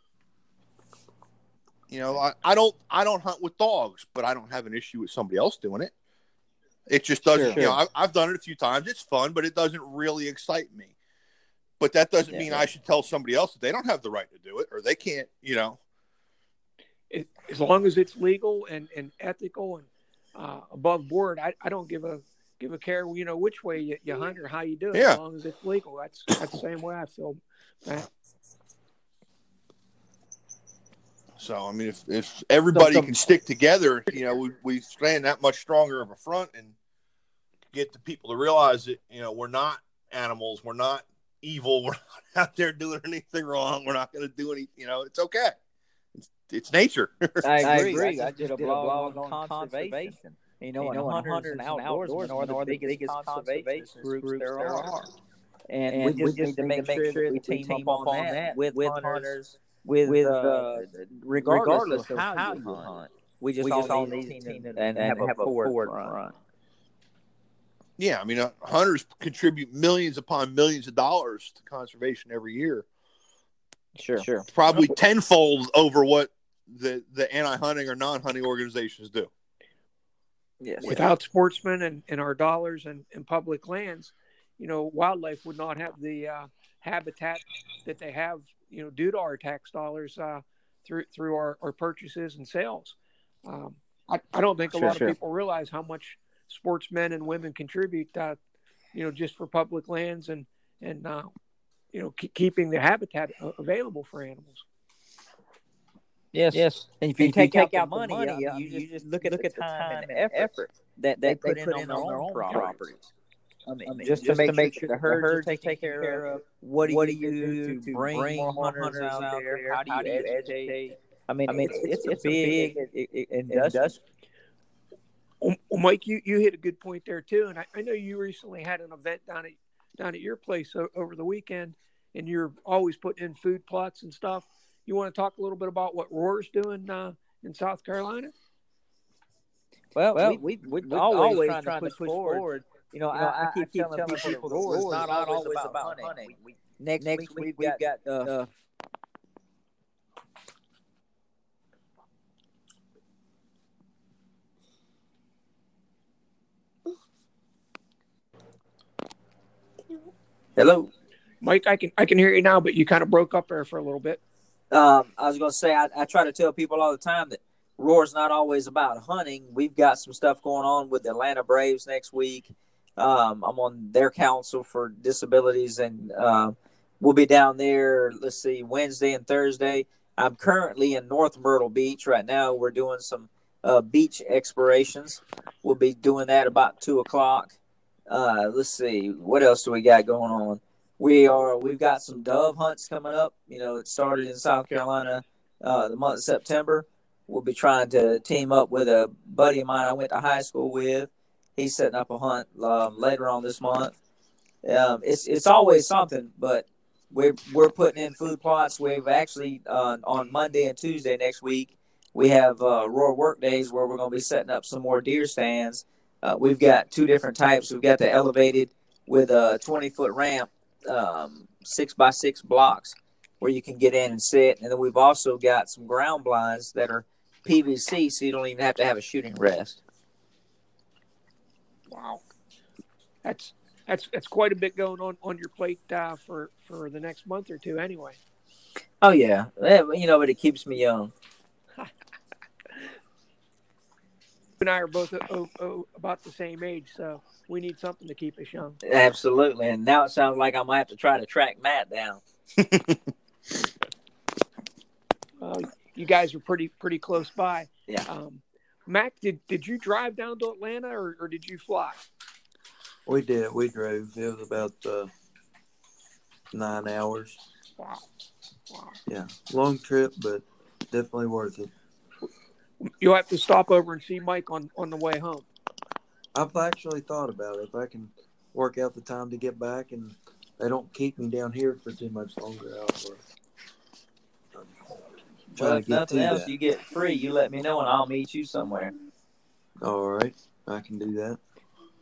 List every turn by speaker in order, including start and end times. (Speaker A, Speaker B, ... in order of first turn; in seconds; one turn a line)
Speaker A: 1.9-5.9
Speaker A: 6.9-10.9
Speaker B: 7.3-7.8
Speaker A: 11.8-15.8
Speaker B: 12.3-12.7
Speaker C: 17.1-28.1
Speaker A: 24.9-25.2
Speaker A: 31.4-36.7
Speaker C: 32.7-33.1
Speaker A: 37.7-45.5
Speaker A: 46.3-47.5
Speaker D: 47.4-55.1
Speaker B: 47.6-54.9
Speaker D: 55.7-66.2
Speaker B: 55.9-66.2
Speaker A: 68.0-72.8
Speaker D: 74.0-74.5
Speaker A: 74.5-79.3
Speaker B: 80.6-81.0
Speaker C: 80.8-98.4
Speaker C: 98.9-101.3
Speaker C: 101.9-104.6
Speaker B: 106.5-112.8
Speaker D: 107.0-113.1
Speaker D: 113.7-124.0
Speaker B: 113.8-120.8
Speaker B: 121.4-122.8
Speaker B: 123.5-123.9
Speaker C: 125.4-138.3
Speaker D: 139.9-148.5
Speaker B: 140.1-148.4
Speaker B: 160.6-160.9
Speaker C: 161.4-164.2
Speaker B: 164.7-187.6
Speaker B: 188.1-203.9
Speaker B: 204.6-229.8
Speaker C: 231.9-232.2
Speaker C: 233.2-238.2
Speaker B: 239.0-241.1
Speaker C: 244.6-248.8
Speaker B: 248.8-252.2
Speaker A: 252.6-253.0
Speaker C: 255.4-262.0
Speaker E: 263.1-265.1
Speaker E: 266.5-267.4
Speaker C: 267.8-268.1
Speaker C: 268.7-268.9
Speaker E: 269.1-271.7
Speaker C: 272.8-275.5
Speaker E: 276.3-283.2
Speaker B: 285.5-288.9
Speaker E: 285.6-286.5
Speaker E: 289.8-291.4